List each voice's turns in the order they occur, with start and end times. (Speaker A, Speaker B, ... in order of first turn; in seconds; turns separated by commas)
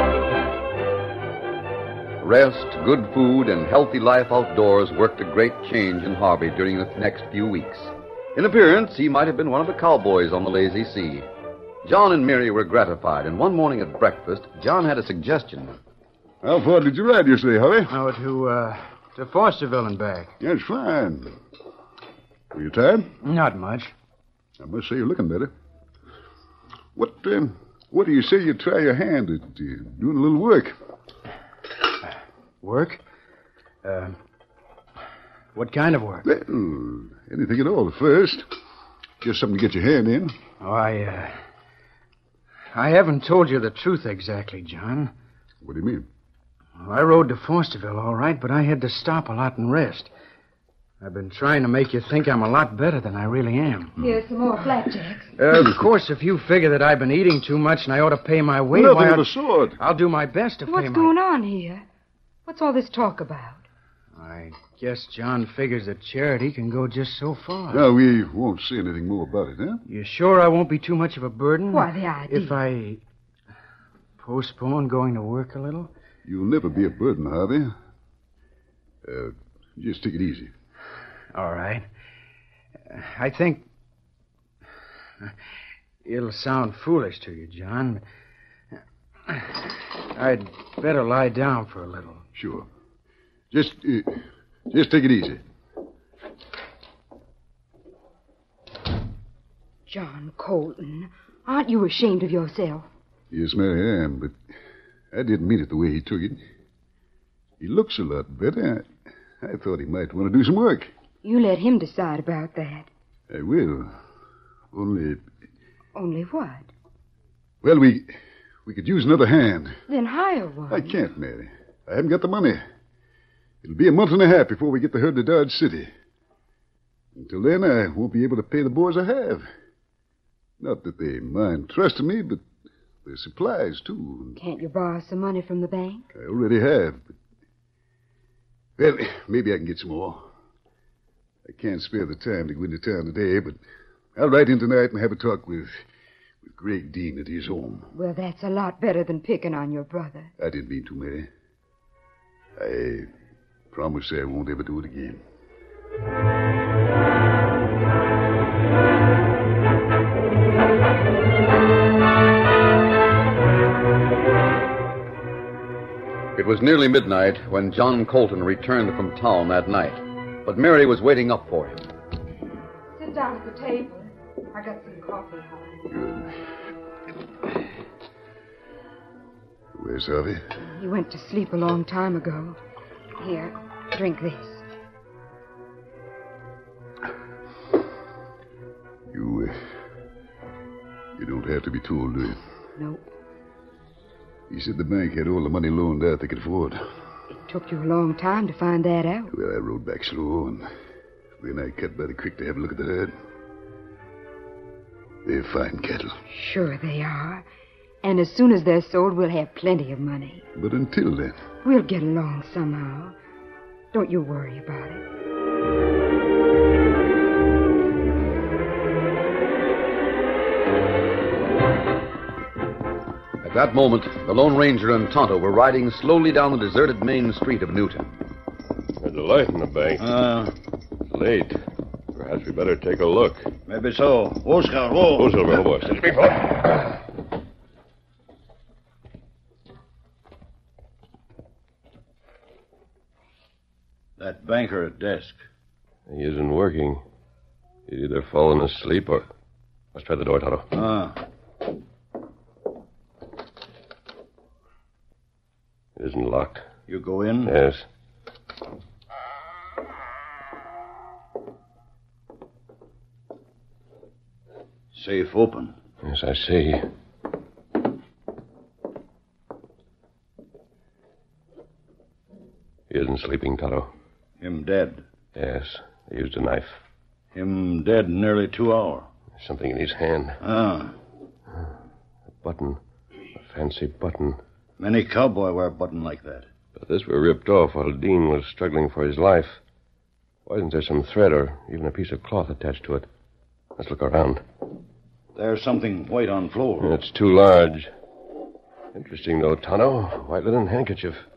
Speaker A: 2.2-11.3, Speaker A: 11.8-15.8, Speaker B: 16.4-17.9, Speaker C: 17.9-20.3, Speaker B: 20.4-21.4, Speaker B: 22.5-23.1, Speaker C: 23.2-23.9, Speaker B: 24.6-25.5, Speaker B: 27.0-30.8, Speaker C: 32.6-33.0, Speaker C: 33.8-34.2, Speaker C: 35.5-36.3, Speaker B: 36.3-38.5, Speaker B: 39.2-40.4, Speaker C: 40.6-41.4, Speaker C: 42.7-45.1, Speaker B: 45.6-46.1, Speaker C: 46.8-50.1, Speaker C: 51.0-54.0, Speaker D: 54.0-55.3, Speaker C: 55.4-61.1, Speaker B: 58.7-59.8, Speaker D: 60.7-61.9, Speaker D: 62.5-63.6, Speaker C: 64.2-67.9, Speaker B: 67.7-69.8, Speaker C: 69.9-73.0, Speaker D: 71.7-72.6, Speaker C: 74.2-75.9, Speaker B: 76.2-77.7, Speaker B: 79.0-80.5, Speaker C: 81.3-81.9, Speaker C: 82.9-83.7, Speaker C: 86.0-88.0, Speaker C: 89.3-92.2, Speaker B: 92.3-92.7, Speaker B: 93.5-95.4, Speaker D: 99.9-102.9, Speaker B: 103.3-104.4, Speaker B: 105.1-106.4, Speaker B: 107.6-108.9, Speaker B: 109.4-110.9, Speaker D: 111.2-112.9, Speaker B: 113.3-113.9, Speaker B: 114.7-115.2, Speaker D: 116.0-116.7, Speaker B: 117.6-118.1, Speaker B: 118.7-119.8, Speaker D: 119.9-120.9, Speaker B: 120.7-122.6, Speaker B: 123.6-125.9, Speaker B: 127.2-129.5, Speaker B: 130.6-132.4, Speaker B: 133.0-134.4, Speaker D: 134.4-136.1, Speaker B: 136.2-137.1, Speaker B: 138.8-140.3, Speaker B: 141.4-143.6, Speaker B: 144.2-145.8, Speaker B: 146.4-147.9, Speaker D: 147.9-150.3, Speaker B: 150.4-151.3, Speaker B: 152.6-153.1, Speaker B: 153.7-155.2, Speaker A: 166.3-171.9, Speaker D: 172.9-175.8, Speaker B: 175.9-176.3, Speaker B: 179.8-180.4, Speaker D: 180.8-182.6, Speaker D: 183.2-184.7, Speaker B: 189.1-189.6, Speaker B: 191.2-192.4, Speaker D: 192.8-193.1, Speaker B: 194.5-196.8, Speaker D: 197.3-199.3, Speaker B: 199.3-200.7, Speaker B: 201.4-203.2, Speaker B: 205.2-206.2, Speaker D: 206.3-207.5, Speaker D: 208.0-210.4, Speaker B: 210.6-211.4, Speaker D: 211.6-213.2, Speaker D: 213.9-215.0, Speaker A: 223.4-228.2, Speaker E: 229.0-230.2, Speaker F: 230.0-230.5, Speaker E: 231.1-231.6, Speaker E: 232.2-233.5, Speaker F: 233.7-235.5, Speaker E: 235.2-236.9, Speaker F: 244.2-245.4, Speaker E: 246.1-247.0, Speaker E: 247.9-249.3, Speaker E: 249.9-250.7, Speaker F: 250.7-251.2, Speaker E: 256.0-256.7, Speaker F: 256.9-257.6, Speaker E: 257.4-257.9, Speaker F: 264.9-265.8, Speaker E: 266.1-266.9, Speaker E: 272.9-273.9, Speaker F: 274.4-275.0, Speaker E: 275.4-276.8, Speaker F: 277.3-279.1, Speaker E: 279.4-280.4, Speaker F: 280.4-280.9, Speaker E: 282.4-282.8, Speaker E: 283.4-284.4, Speaker F: 284.8-286.5, Speaker E: 286.8-289.6, Speaker E: 290.5-293.1, Speaker E: 293.8-294.4, Speaker F: 295.4-296.9, Speaker E: 296.8-297.9, Speaker E: 298.9-301.2